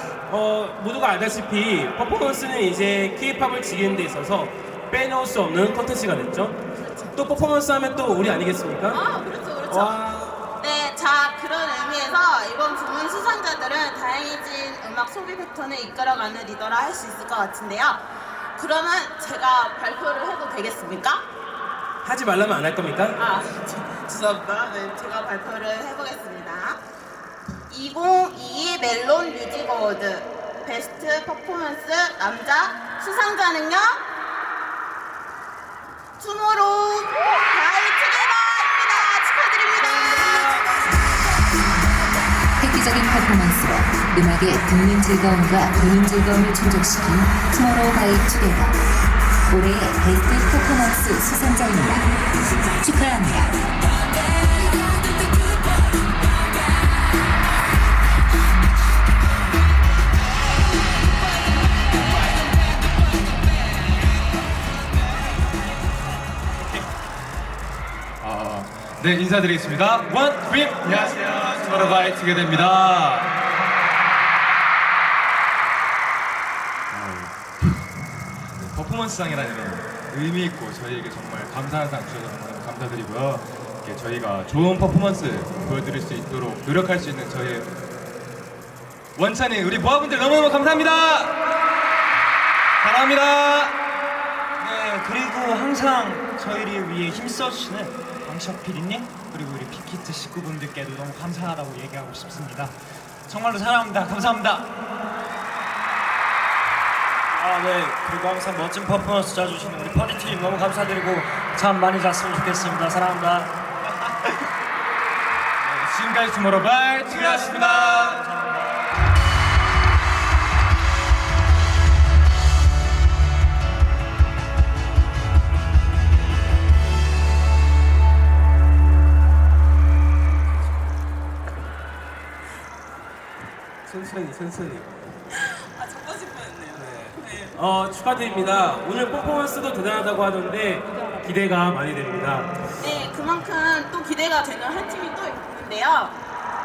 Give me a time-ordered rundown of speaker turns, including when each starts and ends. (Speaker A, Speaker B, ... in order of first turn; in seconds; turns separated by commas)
Speaker A: 0.3-6.6, Speaker B: 6.8-7.6, Speaker A: 7.2-9.0, Speaker B: 8.9-10.0, Speaker A: 9.7-10.4, Speaker B: 10.6-18.0, Speaker B: 18.6-21.2, Speaker A: 22.0-23.2, Speaker B: 23.2-26.8, Speaker B: 27.7-34.0, Speaker B: 36.2-40.7, Speaker C: 42.6-48.8, Speaker C: 49.5-52.1, Speaker C: 52.8-53.6, Speaker D: 68.2-73.4, Speaker D: 76.9-77.9, Speaker D: 78.6-87.7, Speaker D: 89.2-91.4, Speaker D: 92.8-93.8, Speaker E: 94.6-102.8, Speaker E: 103.3-104.7, Speaker E: 107.3-113.5, Speaker D: 115.6-118.2, Speaker E: 117.0-118.6, Speaker A: 133.9-134.9, Speaker A: 135.5-142.5, Speaker B: 142.8-146.2